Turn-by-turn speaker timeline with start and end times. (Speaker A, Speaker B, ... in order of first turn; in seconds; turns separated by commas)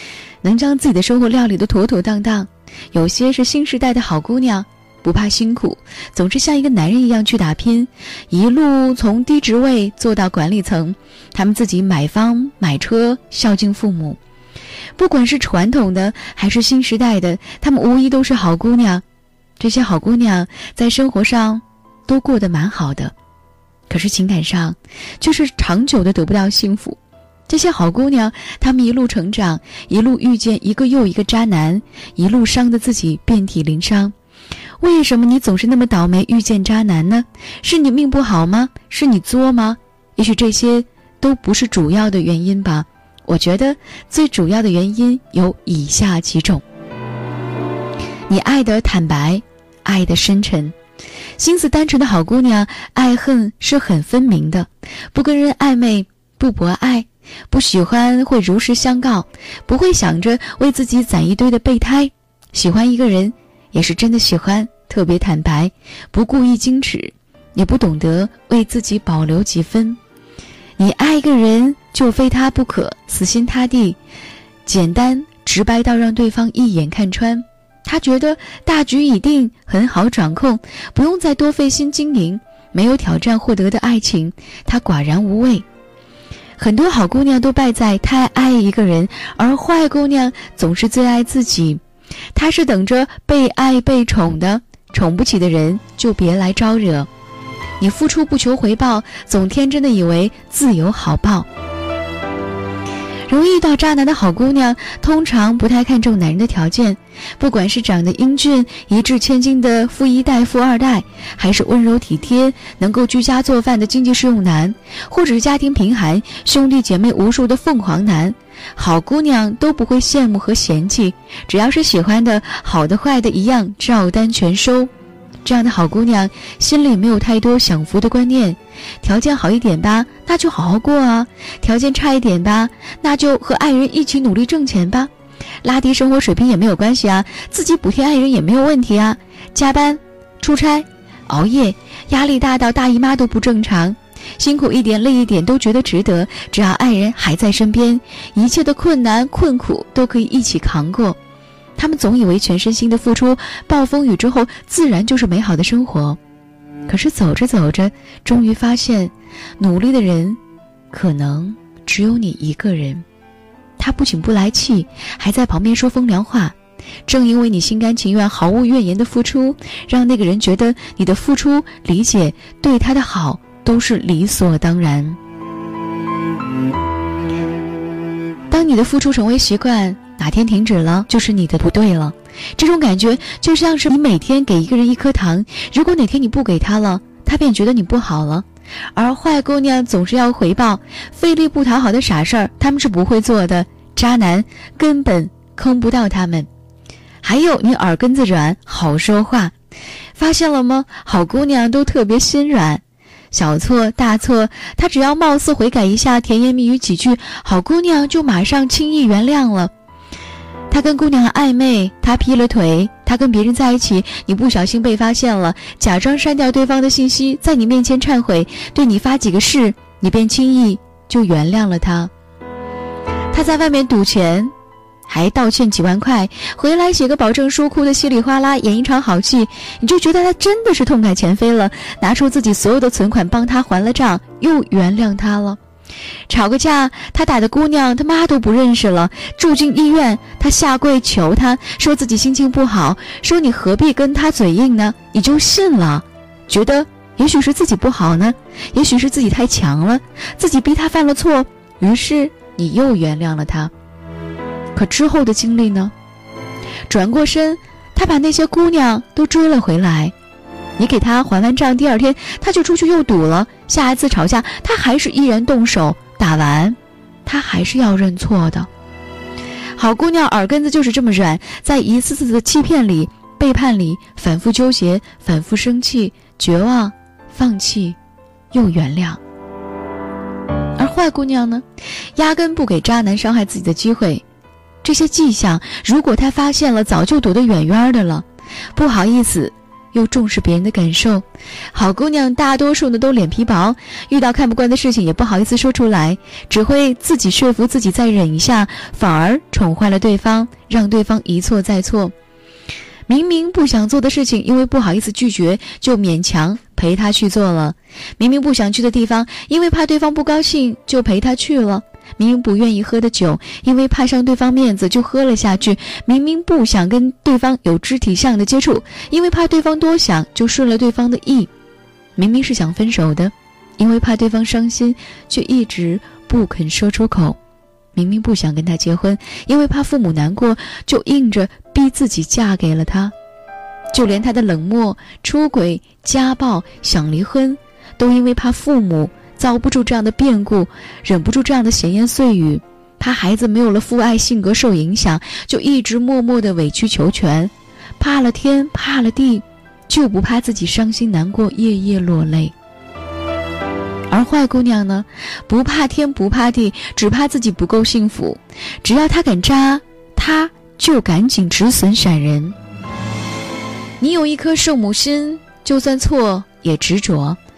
Speaker A: 0.4-14.2, Speaker A: 15.0-19.0, Speaker A: 19.6-23.1, Speaker A: 23.9-34.1, Speaker A: 34.8-46.6, Speaker A: 48.3-50.8, Speaker A: 51.4-70.0, Speaker A: 70.8-74.0, Speaker A: 74.6-85.6, Speaker A: 86.6-91.8, Speaker A: 92.3-97.1, Speaker A: 97.8-101.5, Speaker A: 103.3-124.9, Speaker A: 125.4-135.1, Speaker A: 135.6-151.2, Speaker A: 151.8-156.2, Speaker A: 156.9-160.4, Speaker A: 160.9-163.0, Speaker A: 163.8-175.2, Speaker A: 178.5-196.5, Speaker A: 197.2-199.5, Speaker A: 200.2-209.7, Speaker A: 210.7-222.1, Speaker A: 223.3-224.5, Speaker A: 225.1-235.6, Speaker A: 236.3-253.7, Speaker A: 254.7-255.9, Speaker A: 256.9-260.1, Speaker A: 260.8-268.7, Speaker A: 269.8-278.0, Speaker A: 278.5-279.2, Speaker A: 280.8-281.6, Speaker A: 282.1-284.2, Speaker A: 284.8-302.1, Speaker A: 303.1-321.5, Speaker A: 322.1-327.4, Speaker A: 327.9-333.1, Speaker A: 333.9-352.5, Speaker A: 354.1-362.5, Speaker A: 364.0-367.4